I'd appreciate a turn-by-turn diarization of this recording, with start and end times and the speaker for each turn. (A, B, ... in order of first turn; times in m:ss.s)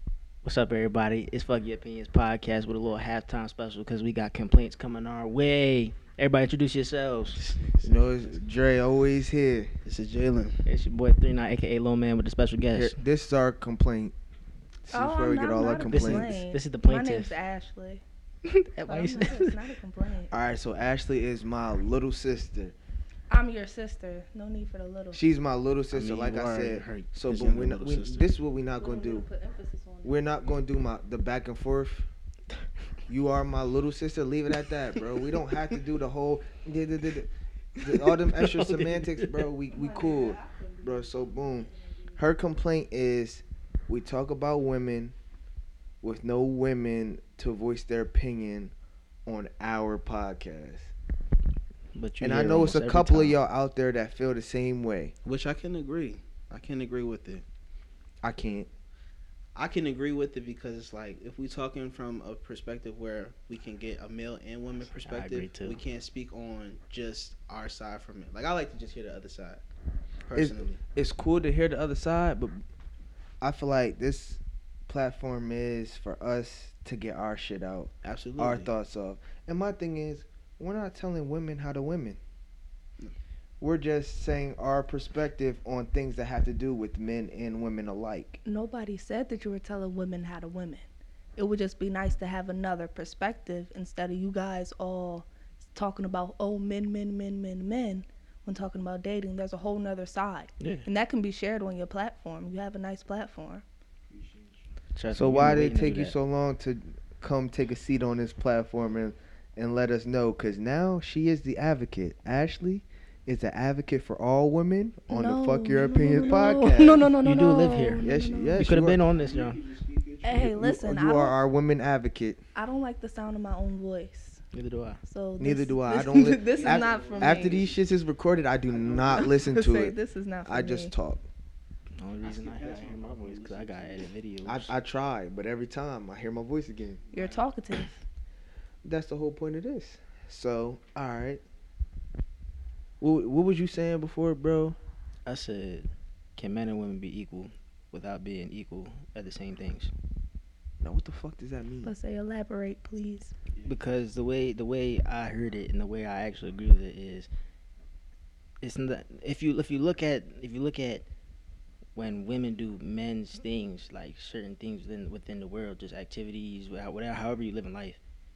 0:00.4-0:07.4 A
0:07.4-0:08.4 B
0:07.8-0:09.7 C
0:09.8-0:10.6 B
0:10.7-0:13.0 A
0:12.7-0:14.1 C
0:14.9-0:16.4 C
0:14.9-0:18.0 D
0:15.9-0:17.3 A
0:18.4-0:19.6 A
0:18.9-0:20.3 D
0:20.3-0:22.7 C
0:23.3-0:25.2 D
0:25.1-0:29.3 C
0:25.9-0:28.0 A
0:27.7-0:28.2 B
0:28.8-0:30.3 D
0:30.0-0:32.1 C
0:33.1-0:45.2 C
0:38.0-0:39.5 A
0:39.7-0:42.2 D
0:46.0-0:48.7 C
0:49.3-0:50.9 C
0:52.0-0:53.4 A
0:52.2-0:55.1 C
0:55.2-0:57.4 B
0:58.2-0:58.7 C
0:59.6-1:09.6 B
1:04.9-1:05.8 A
1:10.3-1:10.8 B
1:10.3-1:12.6 C
1:13.4-1:22.2 C
1:18.0-1:18.7 B
1:23.6-1:28.4 C
1:28.4-1:30.9 D
1:31.4-1:43.6 D
1:40.6-1:40.9 A
1:44.1-1:44.7 B
1:45.0-1:46.2 A
1:45.1-1:57.1 C
1:55.1-1:58.6 D
1:56.3-1:59.6 A
1:58.0-1:59.0 C
1:59.0-2:00.6 B
2:00.2-2:01.4 D
2:00.6-2:02.4 C
2:02.6-2:04.4 D
2:04.5-2:05.0 A
2:05.0-2:07.6 D
2:05.4-2:11.2 C
2:06.5-2:07.8 B
2:08.7-2:09.3 B
2:09.1-2:10.9 D
2:12.0-2:14.7 A
2:12.2-2:14.1 B
2:14.4-2:17.0 C
2:17.0-2:17.4 B
2:17.1-2:18.0 D
2:18.8-2:21.4 C
2:23.0-2:24.8 C
2:25.2-2:29.9 A
2:30.8-2:31.9 C
2:31.8-2:33.3 D
2:33.5-2:34.0 B
2:33.6-2:37.3 A
2:38.6-2:41.1 A
2:42.0-2:48.0 A